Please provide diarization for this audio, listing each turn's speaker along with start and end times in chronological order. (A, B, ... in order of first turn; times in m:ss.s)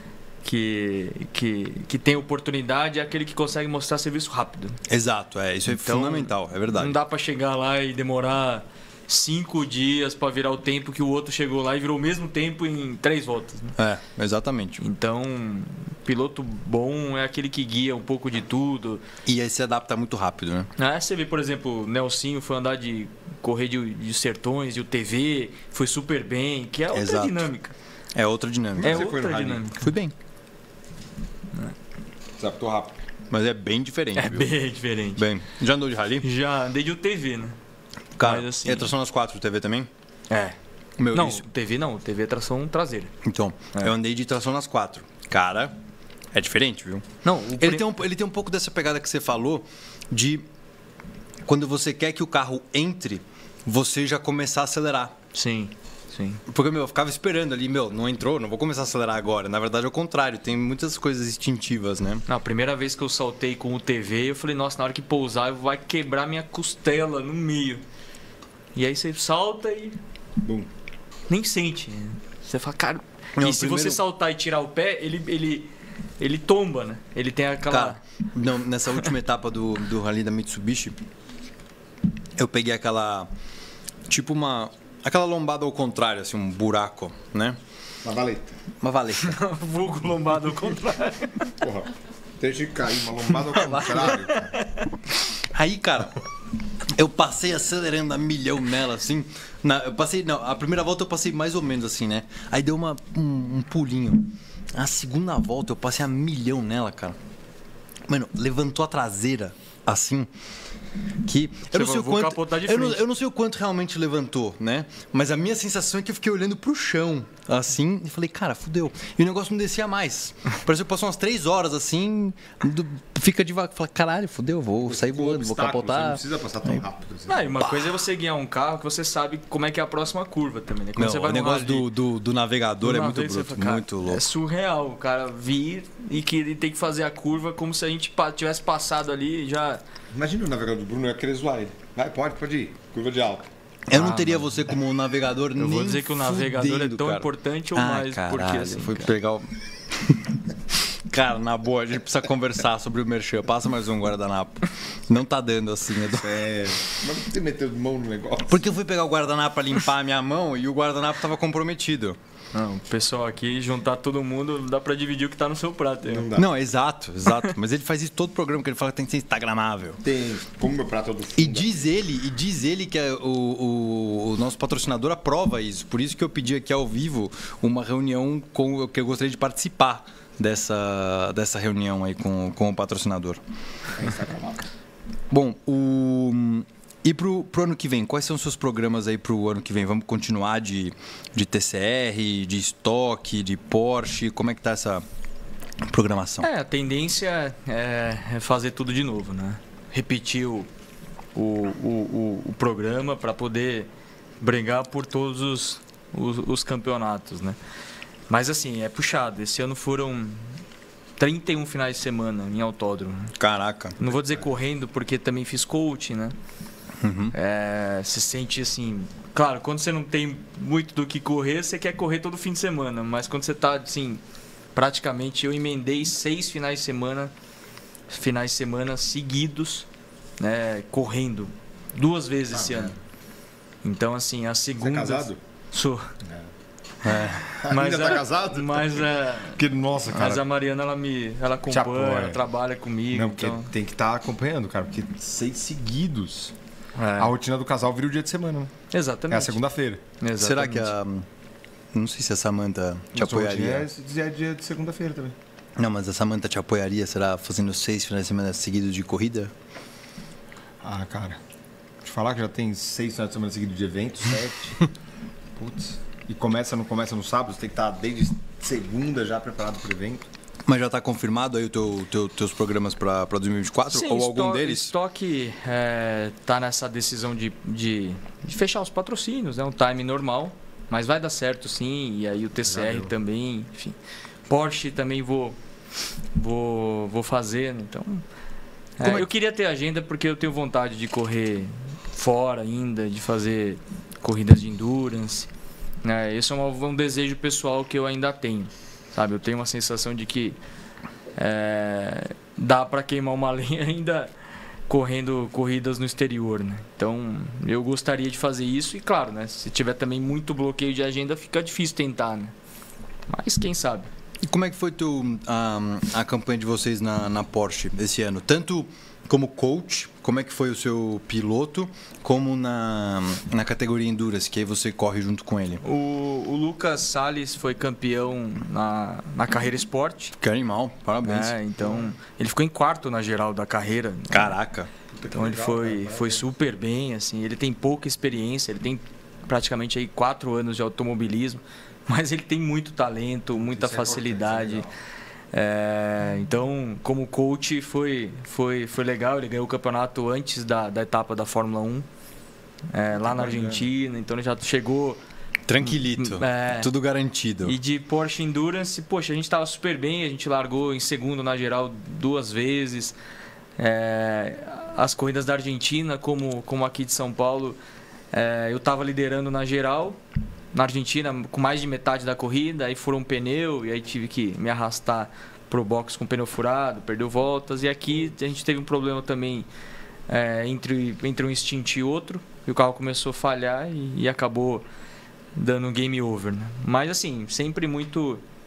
0:00.4-0:04.8 A
0:04.9-0:07.0 B
0:05.7-0:13.8 A
0:13.8-0:14.8 B
0:14.8-0:19.0 A
0:19.2-0:20.7 B
0:20.8-0:27.7 A
0:26.9-0:27.5 B
0:28.1-0:29.1 B
0:28.8-0:29.7 C
0:28.8-0:29.9 A
0:29.8-0:30.1 B
0:32.4-0:33.0 C
0:33.3-0:34.5 B
0:34.2-0:35.2 A
0:35.2-0:36.2 B
0:36.2-0:37.6 A
0:38.2-0:39.9 B
0:38.2-0:38.9 A
0:40.3-0:40.6 A
0:41.0-0:41.4 B
0:41.1-0:43.1 A
0:43.2-0:45.7 B
0:46.3-0:47.0 B
0:47.2-0:47.9 A
0:47.6-0:50.4 B
0:51.4-0:55.1 B
0:55.3-0:56.4 A
0:56.5-1:02.2 B
1:02.3-1:07.8 A
1:08.7-1:10.0 A
1:10.4-1:10.7 C
1:11.3-1:15.7 A
1:13.4-1:14.0 B
1:16.2-1:18.0 A
1:17.7-1:21.0 B
1:22.4-1:23.3 B
1:24.1-1:27.6 B
1:28.0-1:28.6 C
1:28.8-1:29.4 B
1:29.2-1:31.5 A
1:31.6-1:34.6 C
1:33.5-1:34.3 B
1:34.3-1:34.8 A
1:35.4-1:36.2 B
1:36.9-1:47.2 B
1:48.1-1:50.3 B
1:51.2-2:06.8 B
1:51.7-1:53.0 A
2:04.8-2:07.5 C
2:07.3-2:11.9 A
2:07.6-2:07.9 B
2:11.0-2:14.2 B
2:12.8-2:19.8 A
2:20.1-2:23.5 C
2:23.9-2:30.4 B
2:23.9-2:24.6 A
2:25.6-2:29.1 A
2:30.9-2:36.4 B
2:36.2-2:38.6 C
2:38.5-2:42.2 B
2:42.5-2:46.3 A
2:46.0-2:46.5 C
2:46.3-2:50.0 B
2:50.0-2:51.7 C
2:51.4-3:03.4 B
3:04.0-3:04.7 C
3:05.3-3:15.0 B
3:15.9-3:16.5 B
3:16.4-3:20.7 A
3:21.3-3:23.9 A
3:24.4-3:27.6 A
3:28.3-3:30.6 A
3:31.2-3:33.3 A
3:33.4-3:34.0 B
3:34.0-3:36.3 A
3:34.1-3:34.4 C
3:37.0-3:37.3 B
3:37.3-3:44.2 A
3:44.7-3:47.3 A
3:48.1-3:49.9 A
3:50.4-3:52.9 A
3:52.5-3:52.9 C
3:53.8-3:56.1 A
3:54.8-3:55.4 C
3:57.0-3:57.5 B
3:57.5-4:00.4 C
3:57.7-3:59.6 A
4:00.1-4:03.7 A
4:01.7-4:02.4 C
4:03.1-4:06.5 C
4:07.0-4:07.3 A
4:07.2-4:08.7 C
4:08.9-4:09.6 A
4:09.3-4:10.0 C
4:10.2-4:10.9 A
4:10.4-4:11.3 B
4:11.9-4:13.9 B
4:13.1-4:15.3 C
4:15.8-4:19.5 B
4:20.8-4:21.4 C
4:22.0-4:24.9 C
4:25.6-4:30.2 C
4:30.7-4:34.9 B
4:33.9-4:44.0 A
4:42.7-4:43.1 C
4:44.5-4:45.6 A
4:46.3-4:48.2 A
4:49.0-4:55.5 A
4:49.0-4:49.3 B
4:56.0-5:00.6 A
5:01.4-5:04.3 A
5:04.9-5:12.5 A
5:13.3-5:14.1 A
5:14.4-5:25.8 B
5:25.8-5:30.3 A
5:30.4-5:31.5 B
5:31.2-5:34.6 A
5:34.3-5:34.9 B
5:35.1-5:36.5 C
5:35.3-5:44.8 A
5:43.6-5:44.9 C
5:45.5-5:52.0 A
5:52.9-5:55.2 A
5:53.1-5:53.9 C
5:55.7-5:57.8 B
5:55.8-5:56.9 A
5:57.6-6:03.2 A
6:03.8-6:07.8 A
6:08.3-6:10.2 A
6:10.7-6:19.7 A
6:20.3-6:24.8 A
6:25.6-6:28.4 A